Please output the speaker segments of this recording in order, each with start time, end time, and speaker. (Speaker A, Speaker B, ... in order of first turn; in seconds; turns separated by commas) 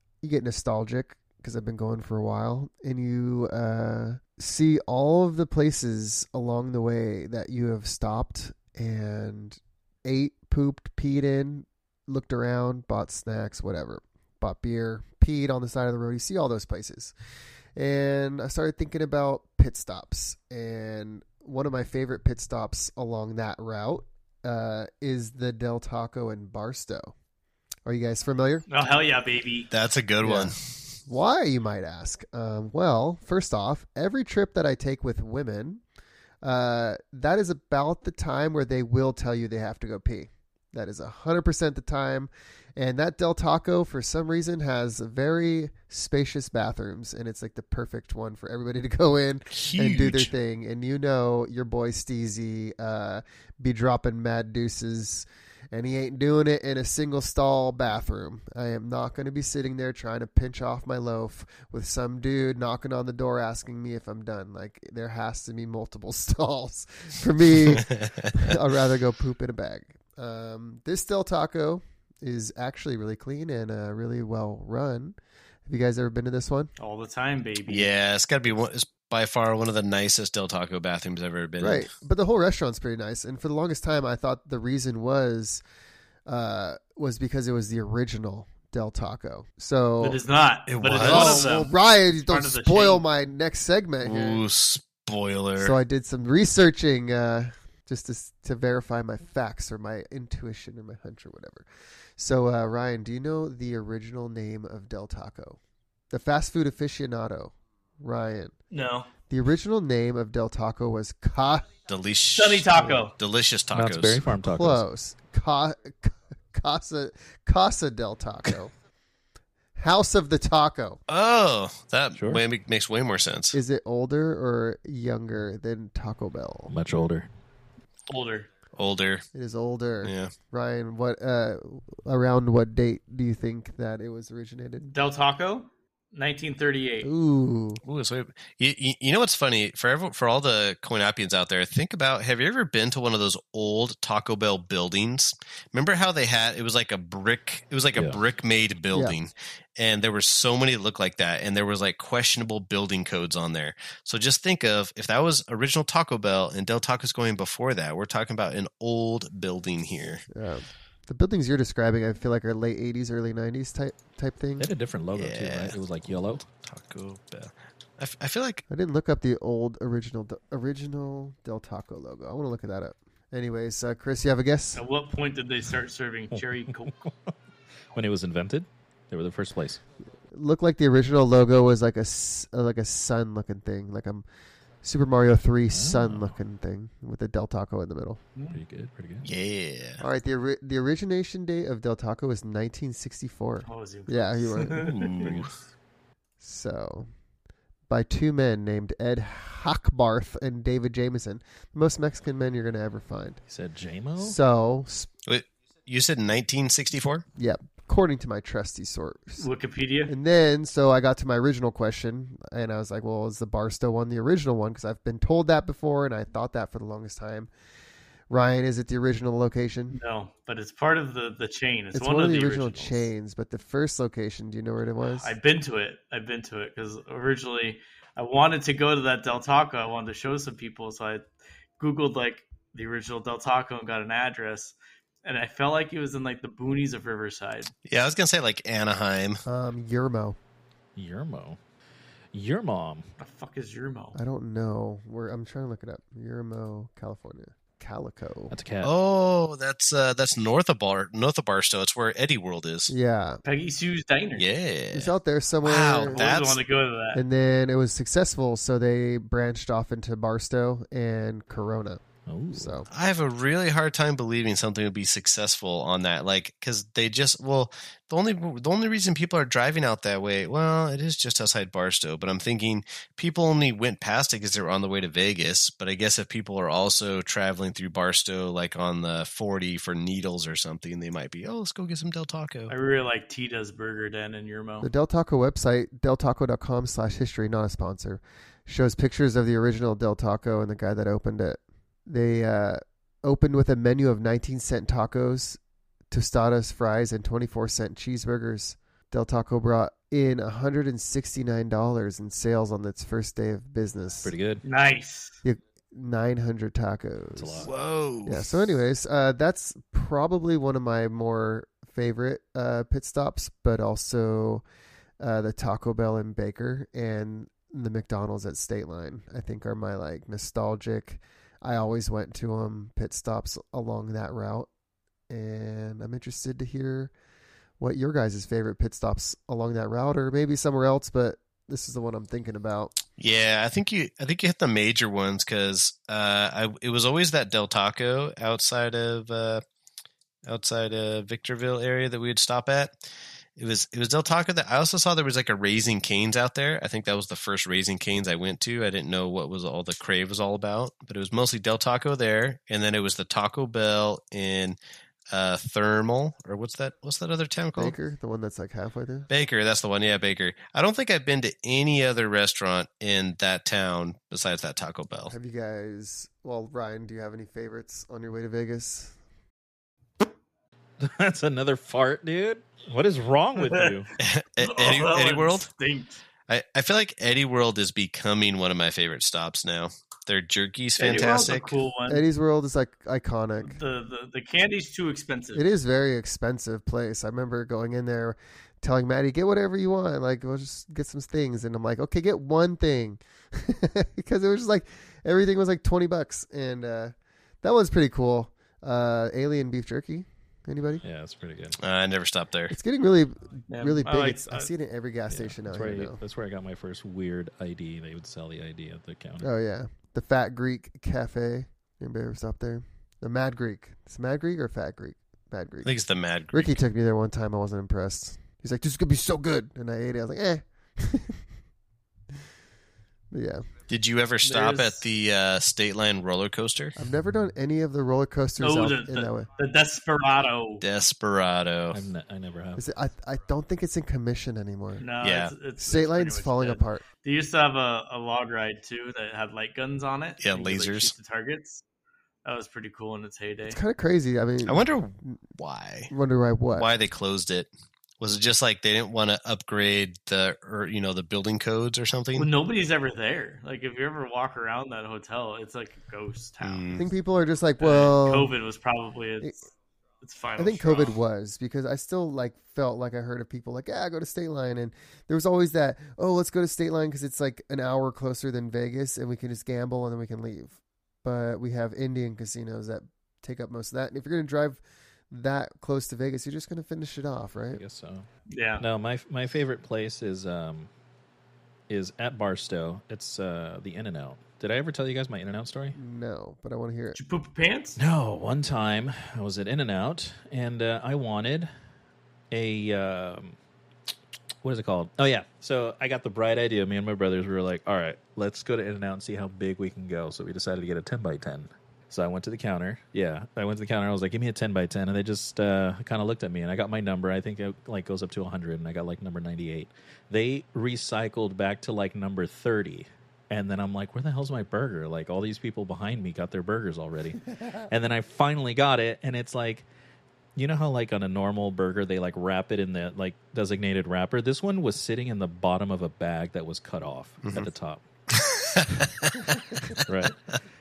Speaker A: 0.2-17.1, Speaker A: 17.8-27.1, Speaker A: 27.9-28.7, Speaker B: 28.7-29.7, Speaker C: 29.7-30.8, Speaker A: 30.2-30.5, Speaker A: 31.1-35.8, Speaker A: 36.4-76.7, Speaker C: 49.5-50.3, Speaker C: 67.6-68.4, Speaker B: 76.8-77.9, Speaker C: 77.7-81.9, Speaker A: 81.6-85.6, Speaker A: 86.3-90.2, Speaker B: 90.0-93.0, Speaker C: 90.7-91.6, Speaker A: 91.0-94.4, Speaker C: 94.0-95.8, Speaker A: 95.6-101.7, Speaker A: 102.2-105.6, Speaker A: 106.1-108.5, Speaker B: 108.7-109.1, Speaker A: 109.3-111.7, Speaker C: 111.9-114.3, Speaker B: 112.3-113.1, Speaker A: 112.8-113.1, Speaker D: 113.7-114.8, Speaker A: 114.3-118.7, Speaker A: 119.8-121.0, Speaker C: 121.1-123.6, Speaker D: 122.1-122.4, Speaker A: 123.5-126.7, Speaker D: 126.7-127.3, Speaker B: 128.1-128.5, Speaker C: 128.8-129.2, Speaker A: 129.3-134.9, Speaker C: 130.0-130.3, Speaker B: 134.8-137.1, Speaker A: 137.0-137.8, Speaker C: 137.8-160.2, Speaker A: 160.3-164.7, Speaker D: 164.6-166.4, Speaker C: 165.1-168.6, Speaker A: 168.7-174.8, Speaker B: 174.8-176.9, Speaker D: 176.3-177.3, Speaker D: 177.9-179.8, Speaker A: 180.3-184.3, Speaker A: 184.8-188.2, Speaker D: 185.7-186.4, Speaker B: 188.3-188.6, Speaker D: 188.5-189.3, Speaker C: 189.2-190.0, Speaker A: 190.0-195.3, Speaker B: 193.6-195.4, Speaker C: 194.8-195.5, Speaker A: 196.4-197.1, Speaker A: 197.9-203.4, Speaker D: 203.5-204.4, Speaker A: 204.2-205.1, Speaker C: 205.3-207.2, Speaker A: 207.4-209.5, Speaker B: 209.4-210.1, Speaker A: 210.1-217.5, Speaker A: 218.3-220.0, Speaker B: 219.9-223.1, Speaker A: 221.9-225.3, Speaker B: 225.1-231.3, Speaker B: 231.8-237.7, Speaker C: 237.9-239.4, Speaker A: 239.5-240.4, Speaker D: 241.0-241.6, Speaker D: 242.3-243.1, Speaker B: 243.2-244.2, Speaker A: 244.1-248.5, Speaker D: 248.5-248.9, Speaker C: 248.8-252.9, Speaker A: 252.9-253.4, Speaker B: 253.4-254.5, Speaker C: 254.4-256.6, Speaker A: 254.9-256.3, Speaker B: 256.1-257.2, Speaker A: 257.1-262.0, Speaker D: 262.3-262.8, Speaker A: 262.5-262.9, Speaker C: 262.9-282.7, Speaker B: 282.7-284.9, Speaker A: 284.8-295.6, Speaker A: 296.1-304.3, Speaker D: 304.2-304.6, Speaker B: 304.6-305.4, Speaker A: 305.4-307.7, Speaker D: 307.4-307.7, Speaker C: 307.6-308.6, Speaker A: 308.2-314.6, Speaker A: 315.2-324.7, Speaker A: 325.3-327.1, Speaker A: 327.8-333.0, Speaker C: 333.2-339.6, Speaker C: 340.5-343.0, Speaker C: 343.6-354.8, Speaker C: 355.3-358.0, Speaker A: 357.8-359.3, Speaker C: 359.3-365.3, Speaker A: 365.3-369.2, Speaker D: 371.0-374.1, Speaker B: 373.6-374.0, Speaker C: 374.2-375.7, Speaker B: 374.6-376.2, Speaker C: 376.5-381.8, Speaker B: 381.0-382.2, Speaker A: 382.1-383.8, Speaker B: 383.6-385.7, Speaker A: 385.5-401.0, Speaker D: 401.0-401.8, Speaker C: 401.8-402.8, Speaker A: 402.7-406.2, Speaker B: 403.7-404.7, Speaker D: 405.3-409.5, Speaker A: 409.4-416.0, Speaker C: 415.8-416.8, Speaker A: 416.5-421.4, Speaker A: 423.3-423.7, Speaker C: 423.9-427.0, Speaker B: 424.4-425.0, Speaker A: 427.0-429.5, Speaker B: 428.6-430.8, Speaker C: 430.8-432.0, Speaker D: 431.9-432.8, Speaker A: 432.8-435.1, Speaker B: 435.0-441.8, Speaker C: 435.2-435.5, Speaker A: 435.8-437.1, Speaker C: 440.4-441.1, Speaker B: 442.4-443.8, Speaker A: 443.7-445.4, Speaker C: 444.7-446.1, Speaker A: 446.1-446.9, Speaker C: 446.8-447.7, Speaker C: 448.2-452.5, Speaker B: 452.4-457.0, Speaker C: 456.6-457.1, Speaker A: 456.9-458.5, Speaker B: 457.8-459.6, Speaker B: 460.2-461.2, Speaker A: 460.6-477.8, Speaker D: 477.7-478.3, Speaker B: 478.5-478.8, Speaker D: 478.8-480.9, Speaker D: 481.9-486.0, Speaker A: 485.9-487.2, Speaker B: 487.1-488.0, Speaker D: 488.0-491.7, Speaker D: 492.5-493.6, Speaker D: 494.6-519.9, Speaker D: 520.6-528.0, Speaker C: 527.4-527.7, Speaker C: 528.3-529.5, Speaker A: 529.5-530.0, Speaker D: 530.0-530.4